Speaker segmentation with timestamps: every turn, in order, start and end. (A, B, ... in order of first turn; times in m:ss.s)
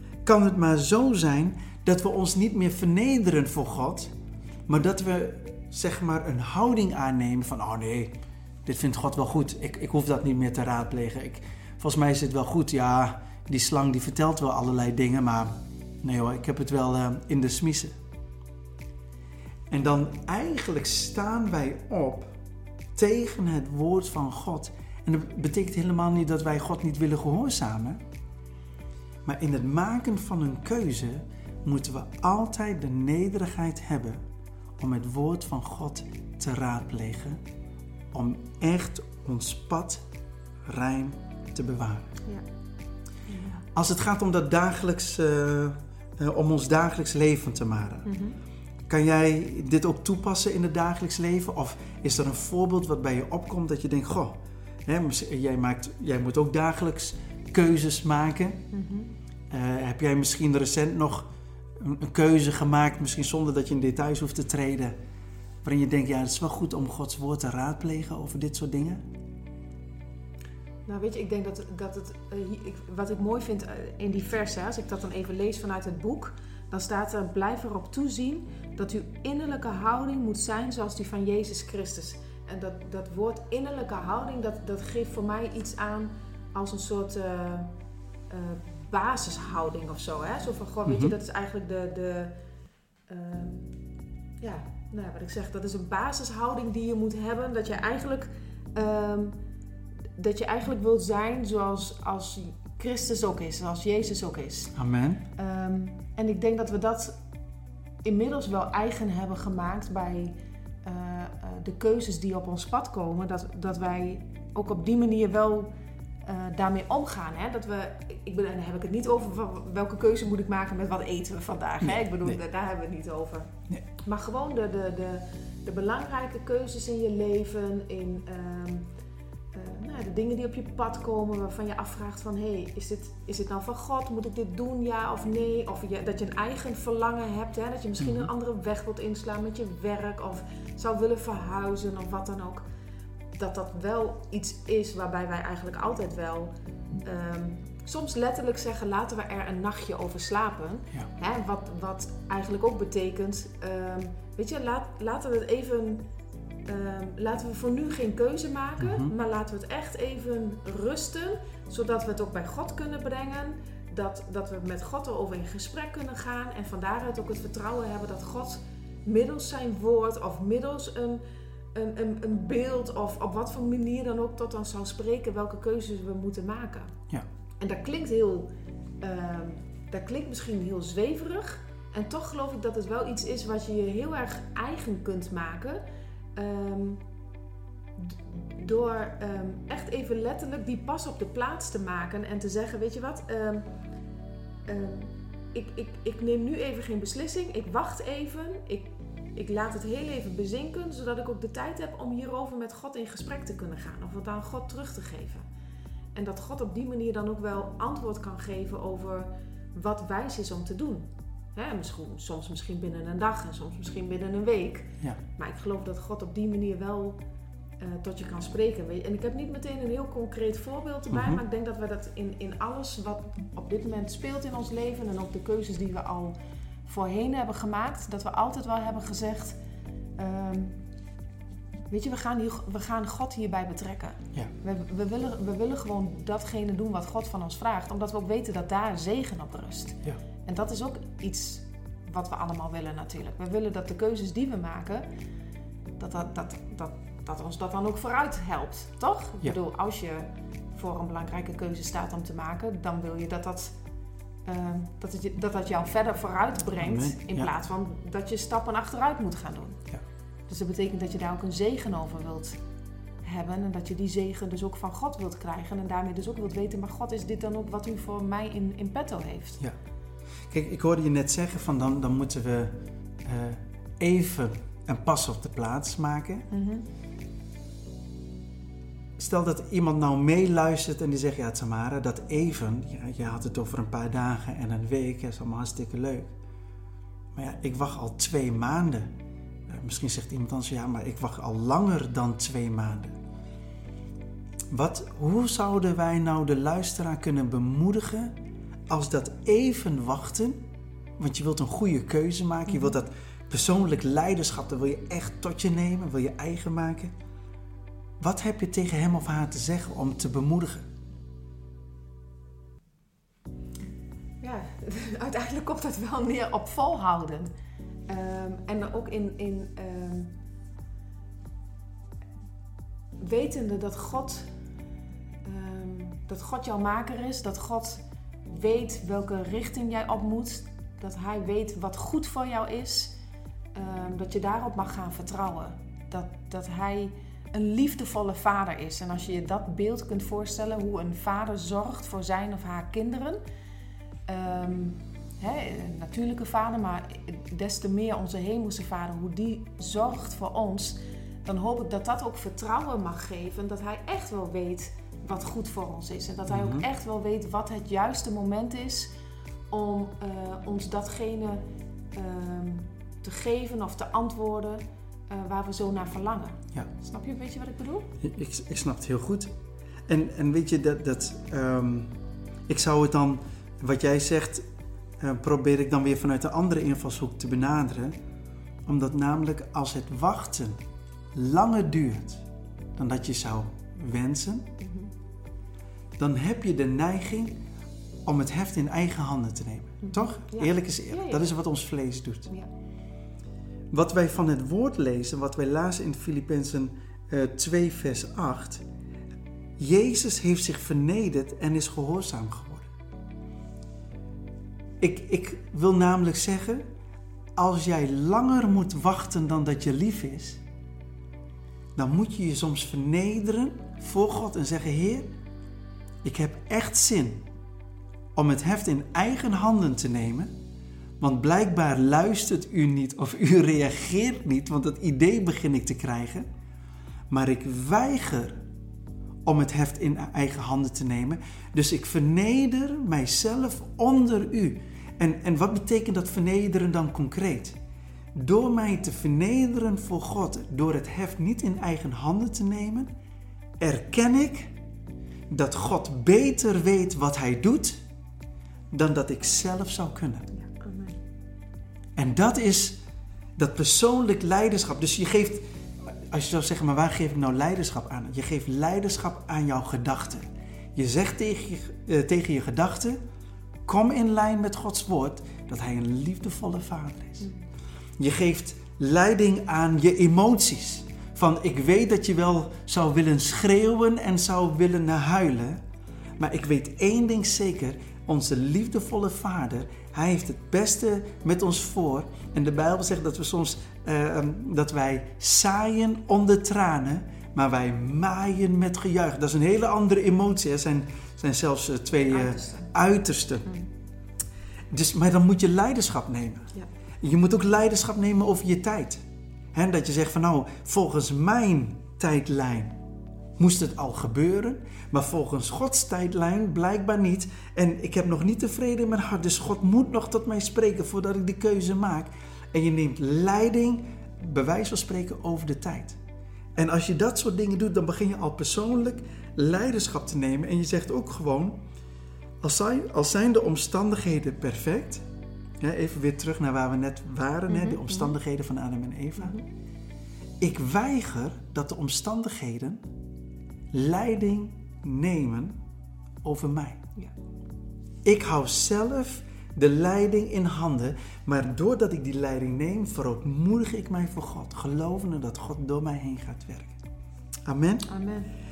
0:00.2-0:04.1 A
0:04.7-0:18.0 A
0:19.7-0:22.3 A
0:23.0-0:28.0 A
0:29.2-0:34.2 A
0:34.8-0:37.4 A
0:38.1-0:40.0 A
0:40.7-0:42.1 A
0:43.3-0:43.6 B
0:43.7-0:48.1 A
0:48.0-0:48.4 B
0:48.9-0:58.7 A
0:58.7-0:59.1 B
0:59.5-1:05.0 A
1:05.6-1:09.0 A
1:10.9-1:27.7 B
1:28.3-1:32.3 B
1:30.8-1:31.1 A
1:33.1-1:33.7 B
1:34.4-1:39.4 B
1:40.2-1:44.7 B
1:44.8-1:45.2 A
1:45.4-1:47.2 B
1:48.0-1:55.7 B
1:56.2-2:08.9 B
2:01.8-2:02.4 A
2:09.5-2:22.6 B
2:18.0-2:18.3 A
2:23.4-2:26.5 B
2:27.0-2:36.0 B
2:36.7-2:51.2 B
2:38.8-2:39.1 A
2:51.7-2:56.9 B
2:57.6-2:58.5 B
2:59.0-3:05.8 B
3:06.4-3:07.0 B
3:08.0-3:13.7 B
3:14.7-3:25.5 B
3:26.2-3:37.2 B
3:37.8-3:49.6 B
3:41.1-3:41.4 A
3:50.2-3:50.8 B
3:51.9-4:05.1 B
4:06.0-4:13.8 B
4:14.5-4:19.8 B
4:16.8-4:17.5 A
4:20.5-4:22.6 B
4:23.2-4:29.6 B
4:30.5-4:36.5 A
4:36.5-4:36.9 B
4:39.2-4:46.3 A
4:47.3-4:49.1 A
4:49.7-4:53.1 A
4:54.7-4:58.4 A
4:58.9-5:00.6 A
5:01.2-5:07.1 A
5:02.7-5:03.0 B
5:08.2-5:10.9 A
5:14.4-5:17.5 B
5:18.1-5:20.4 B
5:23.2-5:24.5 B
5:25.4-5:33.2 B
5:33.8-5:43.4 B
5:44.3-5:59.1 B
5:56.5-5:56.8 A
5:59.7-6:08.1 B
6:08.2-6:09.5 A
6:10.1-6:12.1 A
6:12.7-6:14.6 A
6:15.2-6:18.2 A
6:18.9-6:20.8 A
6:21.3-6:22.4 A
6:23.0-6:24.7 A
6:24.8-6:25.1 B
6:26.2-6:27.6 A
6:28.2-6:32.5 A
6:30.0-6:31.5 B
6:33.9-6:38.8 A
6:39.8-6:42.9 A
6:45.0-6:46.8 A
6:47.6-6:50.6 A
6:52.0-6:55.3 A
6:56.2-6:57.4 A
6:58.4-7:00.5 A
7:01.2-7:06.5 A
7:07.3-7:08.6 A
7:09.4-7:17.8 A
7:18.4-7:23.1 A
7:23.8-7:24.7 A
7:25.5-7:28.0 A
7:28.9-7:30.5 A
7:30.5-7:31.2 B
7:32.2-7:33.0 A
7:33.6-7:43.2 A
7:43.9-7:47.5 A
7:48.2-7:55.8 A
7:56.4-8:13.8 A
8:12.3-8:12.9 B
8:14.9-8:19.2 A
8:19.7-8:23.0 A
8:23.6-8:36.2 A
8:36.8-8:41.8 A
8:42.6-8:45.2 A
8:45.8-8:49.6 A
8:47.7-8:48.3 B
8:49.4-8:49.6 B
8:50.6-8:53.0 A
8:53.9-8:55.8 A
8:56.4-8:57.0 A
8:58.2-9:07.0 A
9:07.7-9:08.1 A
9:08.1-9:08.5 B